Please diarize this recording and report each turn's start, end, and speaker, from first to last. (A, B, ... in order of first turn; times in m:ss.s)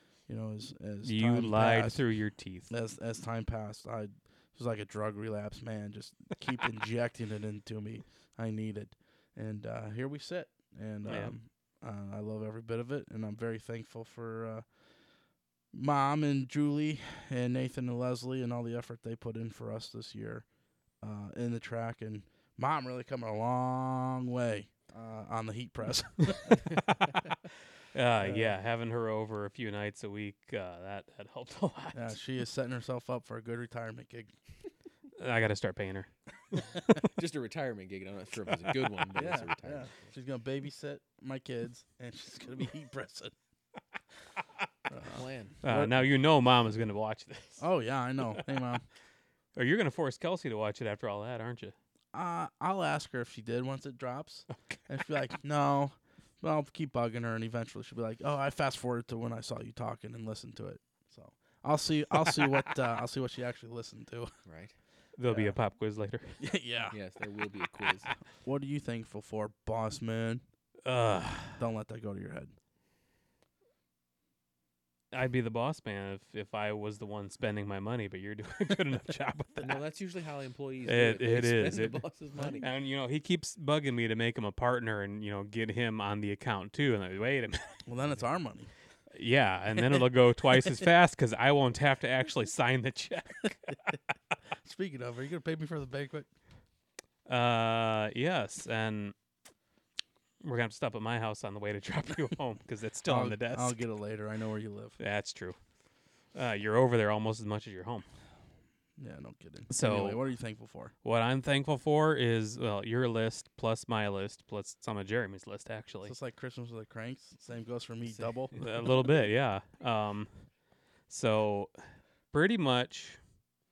0:00.2-0:02.0 A
0:01.0-0:02.7 B
0:02.7-0:14.7 A
0:11.0-0:11.3 B
0:15.7-0:20.5 A
0:21.0-0:26.8 A
0:26.8-0:27.2 B
0:27.9-0:32.2 B
0:28.2-0:28.5 A
0:31.9-0:34.3 A
0:35.1-0:36.6 B
0:37.0-0:40.1 C
0:39.1-0:43.3 A
0:44.9-0:46.0 A
0:45.0-0:45.6 C
0:45.6-0:47.7 B
0:47.6-0:48.8 A
0:49.6-0:51.7 B
0:52.1-1:04.3 A
1:04.4-1:04.8 C
1:05.2-1:06.4 B
1:05.3-1:05.5 A
1:06.4-1:07.0 A
1:06.9-1:08.1 C
1:08.4-1:10.4 A
1:10.8-1:11.6 B
1:11.6-1:12.5 A
1:15.1-1:19.8 B
1:19.6-1:22.7 C
1:20.8-1:22.0 B
1:22.6-1:27.8 B
1:27.8-1:28.7 A
1:29.1-1:34.0 B
1:29.8-1:30.0 A
1:34.6-1:36.3 A
1:37.2-1:39.1 B
1:40.4-1:43.8 B
1:43.0-1:45.0 A
1:45.0-1:45.6 B
1:46.3-1:48.0 B
1:49.0-1:50.9 A
1:49.7-1:50.2 B
1:51.0-1:56.1 B
1:56.0-1:58.6 A
1:58.0-1:58.6 C
1:58.5-2:00.3 B
2:01.1-2:01.7 B
2:02.3-2:03.2 B